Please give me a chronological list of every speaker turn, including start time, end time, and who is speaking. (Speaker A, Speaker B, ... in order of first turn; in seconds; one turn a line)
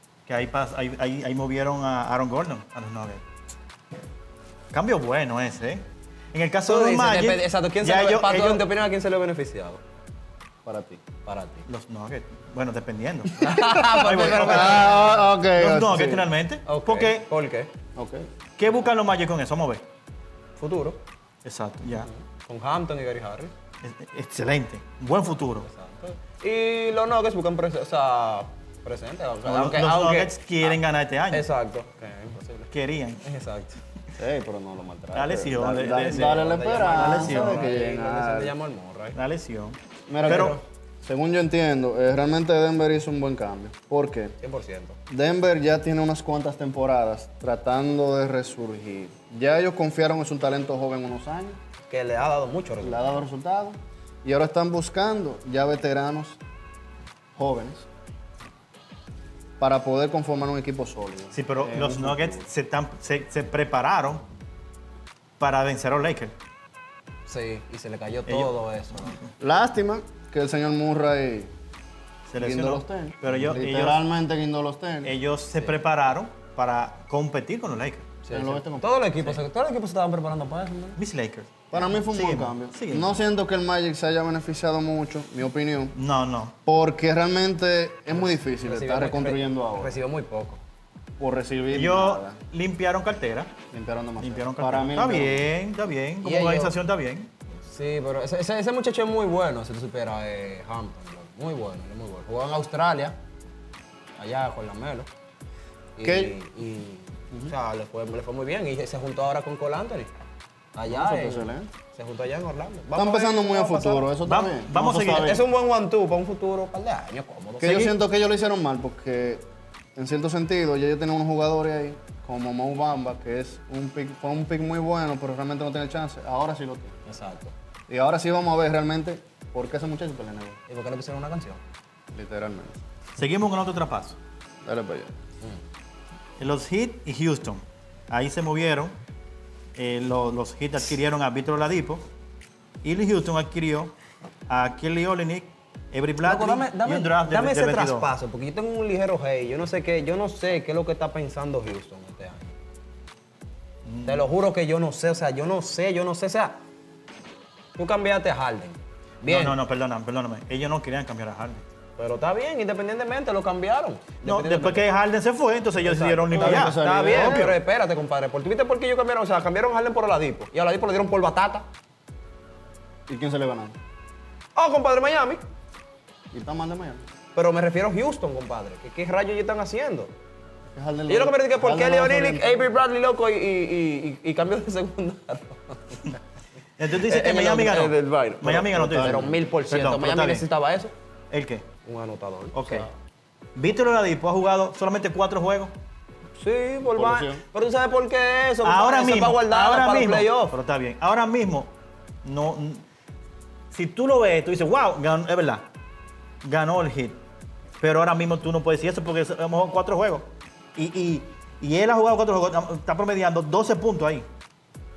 Speaker A: 0.3-3.2
Speaker A: 4.7-8.7
Speaker B: 6.7-9.8
Speaker C: 10.7-11.0
Speaker B: 11.2-11.7
Speaker A: 11.7-17.3
Speaker B: 13.4-15.1
Speaker C: 13.4-16.3
Speaker B: 16.7-17.7
Speaker C: 18.0-18.3
Speaker A: 18.6-19.8
Speaker B: 20.6-21.0
Speaker A: 21.4-22.1
Speaker B: 22.0-23.5
Speaker A: 23.8-25.7
Speaker B: 25.7-30.8
Speaker A: 29.4-31.5
Speaker B: 31.3-32.7
Speaker A: 32.7-33.2
Speaker B: 33.2-33.8
Speaker C: 34.2-38.5
Speaker A: 35.1-37.7
Speaker B: 36.0-39.2
Speaker A: 39.1-40.6
Speaker C: 40.1-44.4
Speaker B: 40.1-40.6
Speaker B: 44.4-45.0
Speaker C: 45.1-51.6
Speaker B: 51.9-53.2
Speaker C: 52.8-56.4
Speaker C: 57.4-57.9
Speaker C: 59.6-62.5
Speaker A: 61.3-64.2
Speaker A: 65.4-66.3
Speaker B: 67.3-69.2
Speaker A: 68.3-68.5
Speaker C: 69.4-71.5
Speaker A: 72.3-74.0
Speaker C: 72.4-75.1
Speaker A: 75.0-78.1
Speaker B: 78.2-81.0
Speaker C: 78.3-78.9
Speaker A: 81.0-83.2
Speaker C: 81.7-86.0
Speaker A: 86.0-86.6
Speaker C: 86.7-90.0
Speaker B: 88.1-90.6
Speaker C: 91.2-92.4
Speaker A: 91.7-93.5
Speaker C: 93.7-95.5
Speaker A: 94.2-97.3
Speaker B: 96.2-96.8
Speaker B: 97.7-103.2
Speaker B: 104.2-105.1
Speaker B: 106.0-110.1
Speaker C: 106.0-106.3
Speaker B: 110.7-114.1
Speaker C: 110.9-111.7
Speaker C: 113.0-115.4
Speaker A: 114.2-115.4
Speaker B: 115.1-117.9
Speaker C: 117.6-127.0
Speaker A: 117.6-117.9
Speaker B: 127.1-127.5
Speaker C: 127.9-130.6
Speaker B: 130.7-131.6
Speaker C: 132.1-132.8
Speaker A: 133.2-134.2
Speaker C: 134.6-135.2
Speaker A: 136.4-138.9
Speaker A: 139.8-142.0
Speaker A: 142.8-143.9
Speaker A: 144.5-148.1
Speaker B: 146.2-152.6
Speaker A: 153.8-154.3
Speaker B: 154.1-156.6
Speaker B: 157.8-159.6
Speaker A: 159.3-161.6
Speaker B: 162.0-164.8
Speaker A: 164.2-167.6
Speaker B: 165.8-171.7
Speaker C: 166.3-167.5
Speaker C: 173.1-173.8
Speaker B: 174.6-175.4
Speaker C: 176.3-177.1
Speaker B: 177.3-180.1
Speaker C: 180.7-182.7
Speaker B: 181.1-186.1
Speaker A: 186.8-190.5
Speaker B: 187.0-190.9
Speaker C: 188.8-189.3
Speaker A: 191.3-191.7
Speaker B: 191.8-192.9
Speaker A: 192.5-192.9
Speaker A: 193.6-195.7
Speaker B: 196.4-200.6
Speaker C: 196.9-197.4
Speaker A: 198.6-201.7
Speaker A: 202.2-202.8
Speaker A: 203.7-205.6
Speaker A: 206.4-207.2
Speaker A: 207.8-214.3